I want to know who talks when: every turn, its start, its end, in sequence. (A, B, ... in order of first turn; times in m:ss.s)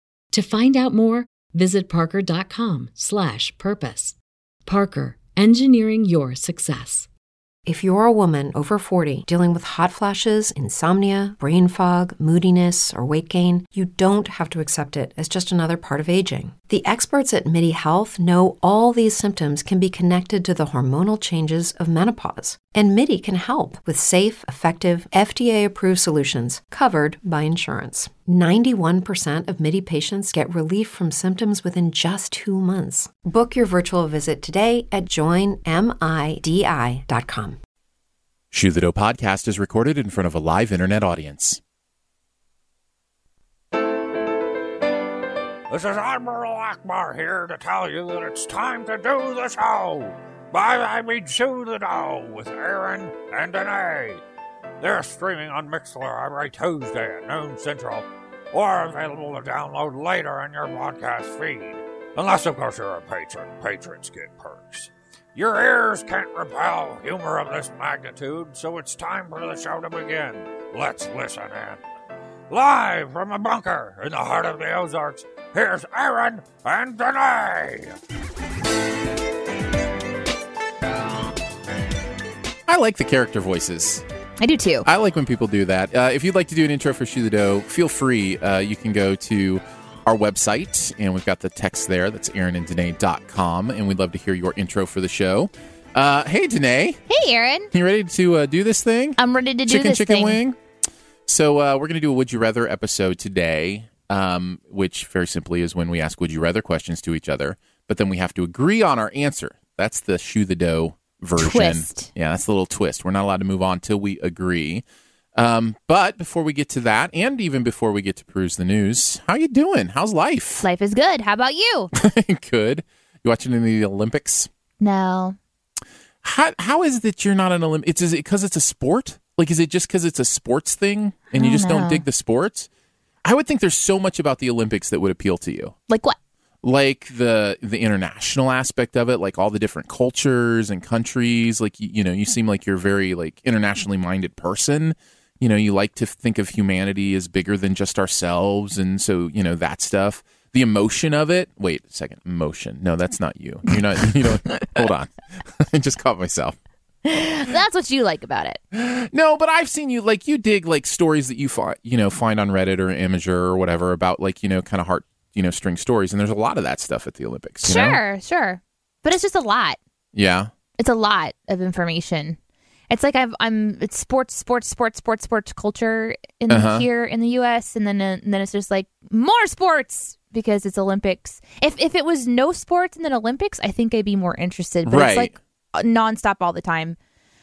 0:00.3-0:07.1 A
0:07.6-0:37.6 B
0:38.5-0:41.6 C
0:45.7-0:54.2 D
0:54.8-1:11.8 D
1:12.5-1:17.9 D
1:22.7-1:24.0 C
1:24.4-1:24.9 E
1:24.8-1:37.0 C
1:37.1-1:37.7 E
1:37.7-1:40.6 C
1:39.2-1:40.4 E
1:41.3-1:54.8 C
1:51.4-1:52.1 E
1:55.3-2:00.6 C
2:00.6-2:01.9 E
2:01.9-2:04.5 C
2:04.8-2:05.4 E
2:06.2-2:12.7 C
2:11.3-2:12.0 E
2:13.2-2:15.7 C
2:15.9-2:16.2 E
2:16.6-2:36.6 C
2:37.0-2:38.6 E
2:38.7-2:48.0 C
2:47.6-2:49.8 E
2:50.1-2:50.5 C
2:50.8-2:52.4 E
2:52.9-3:07.0 E
2:56.5-2:56.8 C
3:04.8-3:05.3 C